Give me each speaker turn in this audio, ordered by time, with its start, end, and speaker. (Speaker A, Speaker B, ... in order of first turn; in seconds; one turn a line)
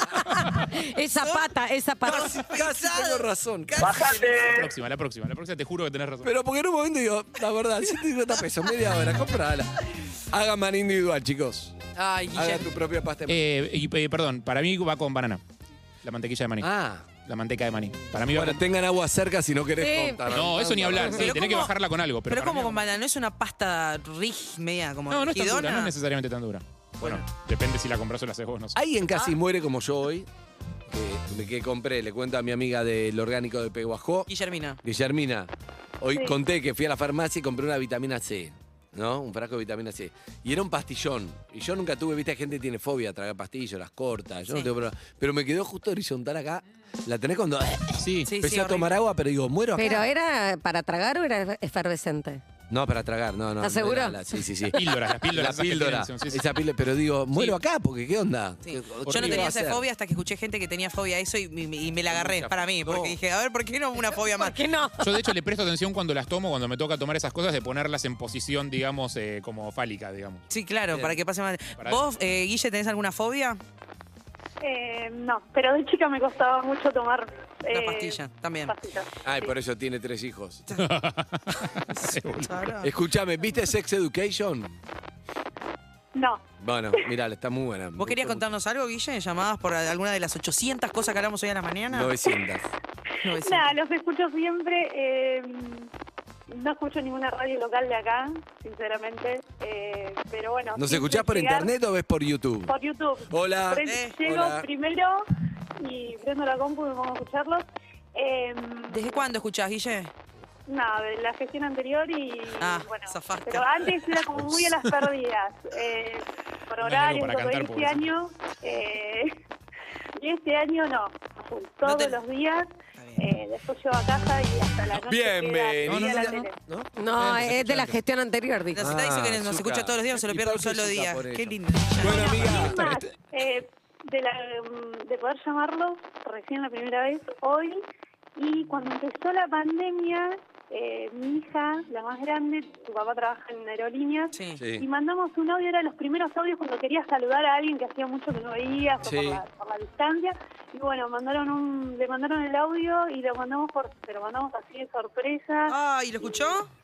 Speaker A: 0.7-2.4
Speaker B: 1.2-1.5
Speaker C: 2.0-4.5
Speaker B: 2.0-4.6
Speaker D: 4.5-6.3
Speaker C: 6.2-13.4
Speaker B: 11.9-12.7
Speaker D: 13.3-15.4
Speaker D: 16.0-18.6
Speaker C: 16.6-17.1
Speaker C: 18.3-21.3
Speaker A: 19.8-21.1
Speaker D: 20.2-22.8
Speaker B: 21.1-21.7
Speaker B: 22.2-25.9
Speaker D: 25.1-28.8
Speaker C: 28.8-30.3
Speaker C: 30.9-34.3
Speaker B: 34.3-34.8
Speaker C: 34.8-50.0
Speaker D: 48.0-48.3
Speaker B: 48.3-48.9
Speaker A: 49.7-52.4
Speaker C: 52.7-59.8
Speaker A: 53.6-54.5
Speaker D: 54.7-56.4
Speaker B: 58.6-64.6
Speaker D: 59.1-59.5
Speaker C: 62.1-63.2
Speaker A: 64.0-65.3
Speaker D: 65.0-70.4
Speaker B: 70.5-73.6
Speaker E: 74.6-79.5
Speaker B: 77.7-78.7
Speaker C: 79.2-80.6
Speaker B: 80.7-81.0
Speaker D: 80.8-82.7
Speaker B: 81.9-82.9
Speaker C: 82.8-84.8
Speaker E: 86.1-87.1
Speaker C: 86.6-88.4
Speaker B: 88.0-92.2
Speaker C: 91.9-92.7
Speaker B: 93.2-93.7
Speaker E: 93.3-95.9
Speaker E: 96.5-101.7
Speaker C: 100.7-102.7
Speaker E: 102.7-105.3
Speaker C: 103.3-104.7
Speaker B: 103.8-104.2
Speaker E: 105.8-109.2
Speaker B: 108.9-110.1
Speaker E: 110.7-119.4
Speaker B: 112.6-114.2
Speaker D: 116.8-118.0
Speaker E: 120.2-126.5
Speaker B: 121.8-122.2
Speaker B: 123.0-123.3
Speaker C: 124.9-126.9
Speaker D: 125.8-126.4
Speaker A: 127.0-128.9
Speaker D: 127.2-128.0
Speaker B: 128.7-132.8
Speaker C: 128.8-133.1
Speaker E: 132.0-137.8
Speaker E: 138.3-155.8
Speaker B: 144.3-144.6
Speaker C: 144.6-144.8
Speaker C: 149.0-149.4
Speaker B: 155.7-156.7